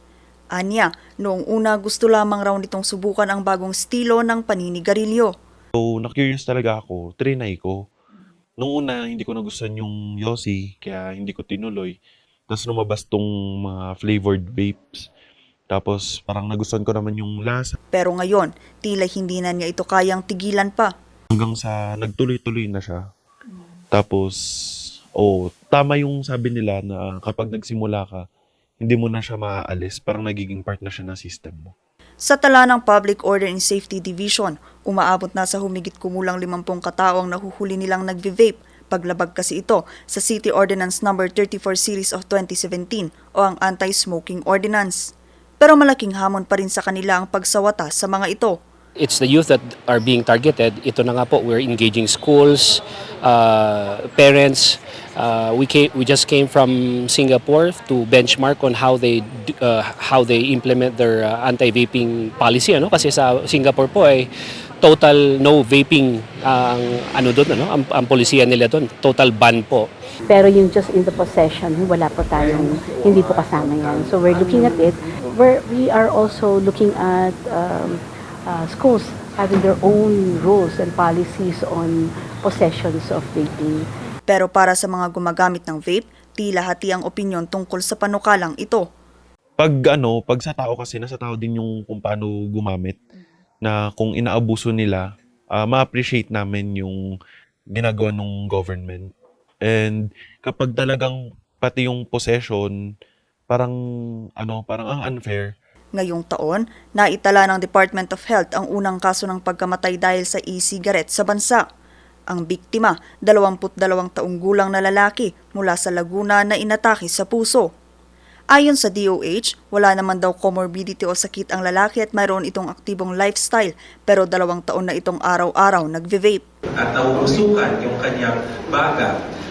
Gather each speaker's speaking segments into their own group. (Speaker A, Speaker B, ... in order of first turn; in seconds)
Speaker A: 0.6-5.3, 17.9-20.9, 32.2-48.5, 84.3-88.8, 106.0-111.6, 112.3-117.7, 118.5-126.4
Speaker B: 5.8-7.8, 8.6-12.0, 12.5-15.1, 15.7-17.8, 21.3-23.0, 23.9-24.4, 25.2-28.2, 28.8-31.7, 89.6-93.0, 93.6-95.0, 95.5-97.0, 97.7-99.1, 99.6-102.7, 103.5-103.8, 104.4-105.5
Speaker C: 49.0-64.3, 64.8-69.9
Speaker D: 70.3-83.8
Speaker E: 126.8-129.1